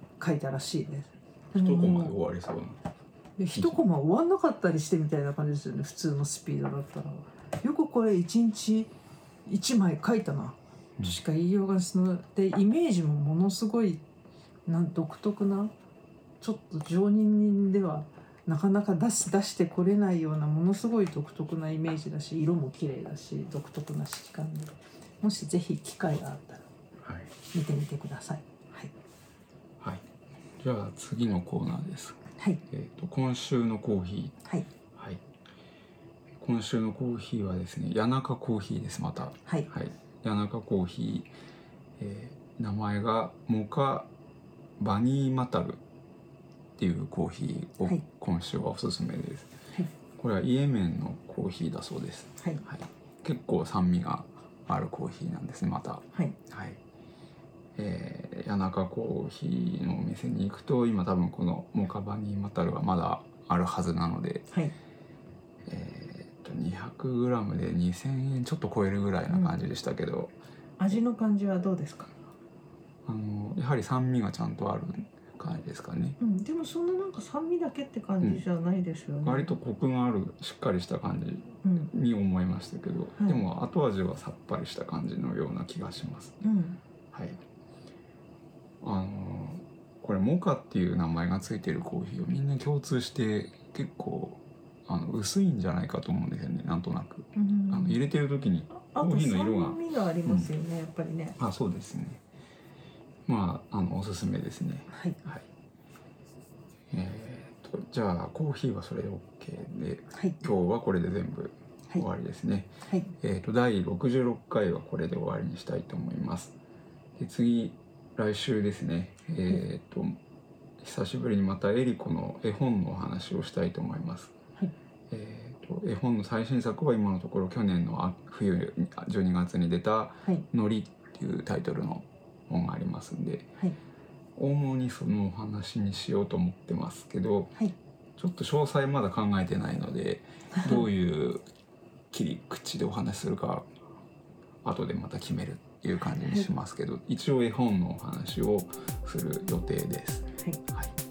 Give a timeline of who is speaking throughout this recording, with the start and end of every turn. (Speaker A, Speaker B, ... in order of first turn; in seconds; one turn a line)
Speaker A: 0.2-2.2
Speaker B: 1.6-2.8
Speaker A: 3.4-8.9
Speaker B: 3.5-3.8
Speaker A: 9.5-14.0
Speaker A: 14.7-15.7
Speaker A: 16.4-26.7
Speaker B: 27.0-27.3
Speaker A: 27.5-28.9
Speaker B: 29.8-30.1
Speaker B: 30.6-34.4
Speaker A: 32.4-32.6
Speaker B: 35.0-35.2
Speaker B: 36.4-41.3
Speaker B: 42.0-44.1
Speaker B: 44.8-45.8
Speaker B: 46.8-49.5
Speaker B: 50.2-56.8
Speaker A: 52.4-52.6
Speaker B: 57.8-64.5
Speaker B: 65.7-70.3
Speaker A: 69.3-69.6
Speaker A: 70.8-72.1
Speaker B: 73.1-76.2
Speaker A: 76.2-79.5
Speaker B: 79.2-86.4
Speaker A: 81.6-81.9
Speaker A: 86.4-86.8
Speaker B: 87.1-87.4
Speaker B: 88.8-100.5
Speaker A: 97.4-98.0
Speaker A: 98.7-101.4
Speaker B: 101.4-102.2
Speaker B: 103.3-105.5
Speaker A: 104.9-105.2
Speaker B: 106.9-116.6
Speaker A: 110.1-110.4
Speaker A: 112.9-113.1
Speaker B: 117.2-120.2
Speaker B: 120.8-124.3
Speaker B: 125.1-133.5
Speaker B: 134.4-137.5
Speaker B: 138.2-141.4
Speaker A: 140.5-140.8
Speaker B: 142.1-143.7
Speaker B: 144.6-150.9
Speaker A: 146.2-146.5